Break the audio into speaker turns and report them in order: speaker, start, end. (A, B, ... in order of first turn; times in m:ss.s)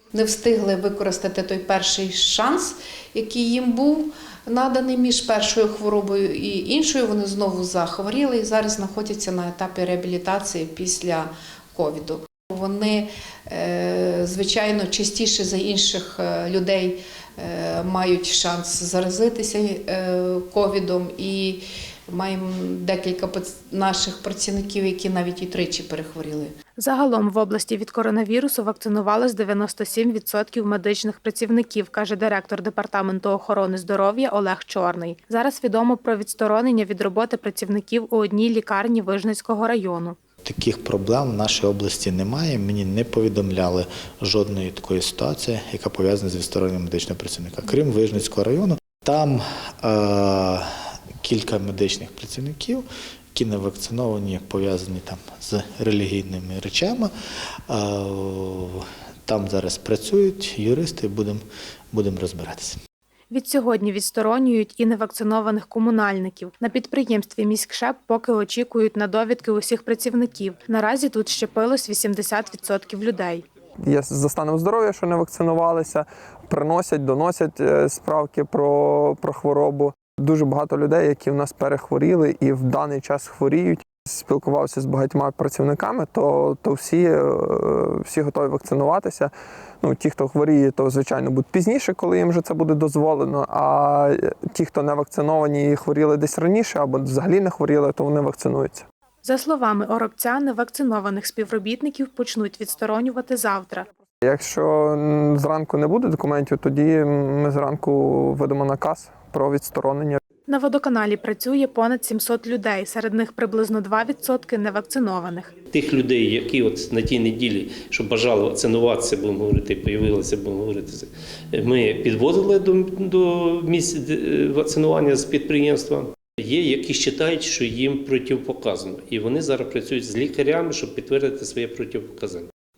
0:00.1-0:26.5 A
0:26.8-0:40.2 B
0:40.4-0:50.7 C
0:51.2-0:57.1 C
0:57.7-1:02.8 C
1:03.3-1:13.4 B
1:13.8-1:38.8 D
1:39.2-1:43.9 B
1:44.2-1:50.2 D
1:50.5-1:55.5 B
1:55.7-2:12.5 E